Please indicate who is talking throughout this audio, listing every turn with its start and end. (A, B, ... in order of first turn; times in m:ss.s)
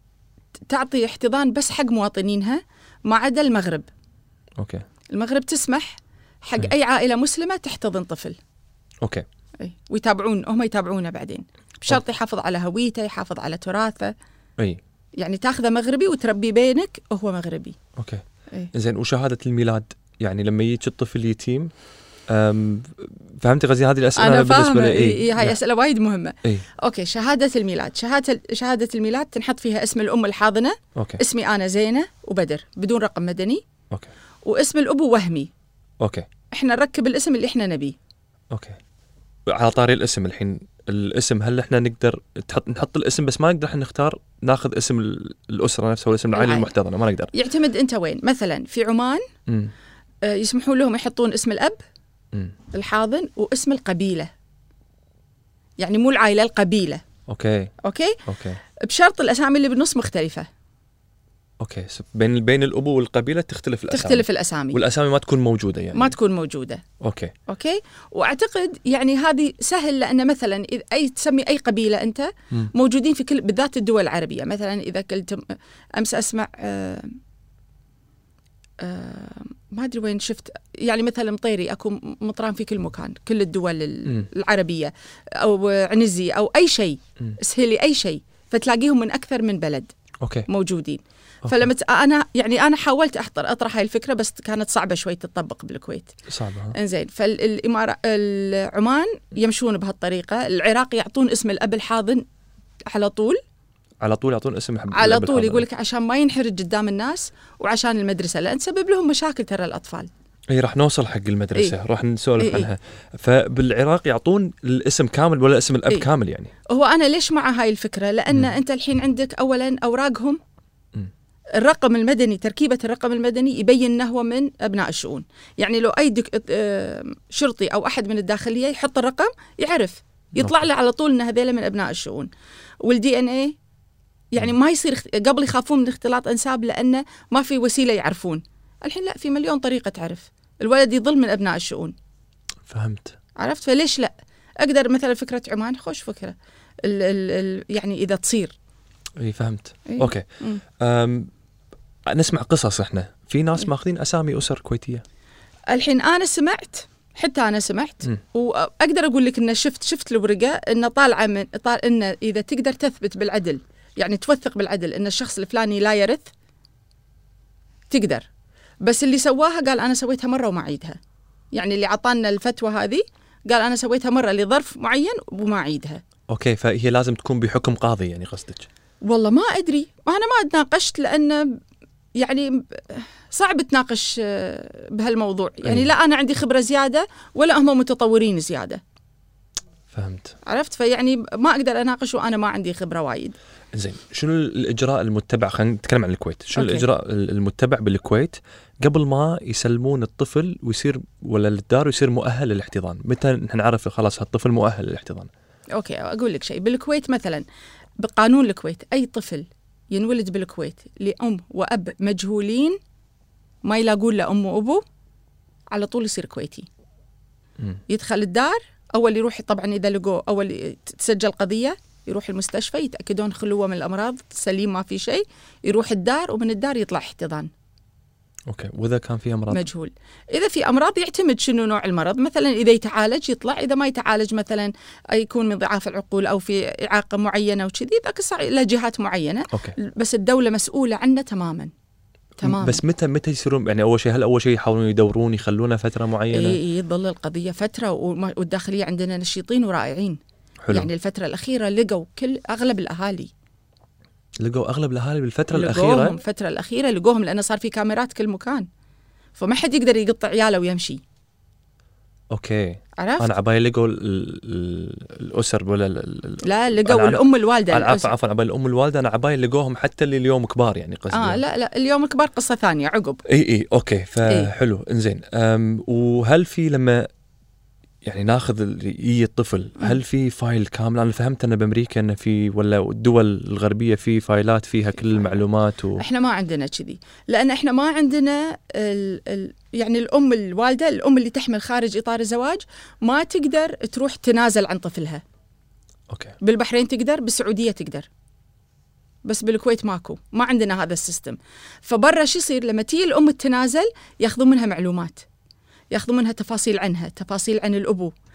0:00.7-0:03.9 A
0:04.6-0:04.8 B
0:05.1-0:08.4 A
0:09.6-0:14.1 A
0:15.2-0:17.8 A
0:18.0-0:21.7 B
0:22.3-0:25.6 B
0:24.2-0:33.6 A
0:31.0-0:31.2 B
0:34.4-0:35.5 A
0:36.0-0:36.3 B
0:36.5-0:38.0 A
0:38.5-0:38.8 B
0:39.5-0:47.3 B
0:46.3-0:46.7 A
0:47.3-0:49.2 A
0:49.5-0:49.7 B
0:50.2-0:51.8 A
0:52.7-0:54.3 A
0:55.8-0:57.0 A
0:57.3-0:57.7 B
0:57.8-0:58.2 A
0:58.2-0:58.6 B
0:58.7-1:00.5 A
1:01.6-1:06.1 B
1:03.9-1:04.8 A
1:05.9-1:06.8 A
1:07.0-1:07.3 B
1:07.5-1:17.2 A
1:18.8-1:29.9 A
1:30.2-1:30.5 B
1:30.5-1:36.1 A
1:36.3-1:36.8 B
1:36.7-1:42.2 A
1:42.8-1:43.4 A
1:44.0-1:45.6 B
1:44.9-1:50.1 A
1:50.5-1:56.5 B
1:52.4-1:52.7 A
1:56.7-2:00.4 A
2:01.6-2:12.3 A
2:12.8-2:13.6 A
2:14.3-2:22.0 A
2:22.7-2:23.1 B
2:23.4-2:28.5 A
2:29.2-2:30.2 B
2:29.9-2:30.6 A
2:30.8-2:31.3 B
2:32.0-2:35.0 B
2:35.7-2:46.3 A
2:47.9-2:48.3 A
2:48.8-2:51.0 A
2:51.5-2:56.0 A
2:56.3-2:58.7 B
2:59.0-3:01.6 A
3:02.2-3:08.8 A
3:05.6-3:05.9 B
3:09.9-3:10.4 B
3:10.4-3:13.4 A
3:13.7-3:25.3 B
3:16.6-3:16.8 A
3:25.7-3:27.4 A
3:28.0-3:32.8 A
3:33.6-3:34.8 A
3:35.7-3:36.7 A
3:37.9-3:47.5 A
3:48.5-3:49.6 B
3:49.5-4:01.7 A
3:59.5-3:59.8 B
4:02.4-4:06.6 B
4:02.4-4:02.8 A
4:06.3-4:10.2 A
4:10.6-4:10.9 B
4:10.7-4:13.3 A
4:14.4-4:16.2 B
4:15.5-4:18.7 A
4:19.4-4:21.0 A
4:22.3-4:31.4 B
4:23.0-4:23.3 A
4:26.4-4:28.1 A
4:31.1-4:33.2 A
4:33.3-4:37.1 B
4:38.0-4:46.0 B
4:46.0-4:55.2 A
4:56.1-4:56.4 B
4:56.4-4:58.1 A
4:59.2-5:05.2 A
5:05.9-5:08.1 A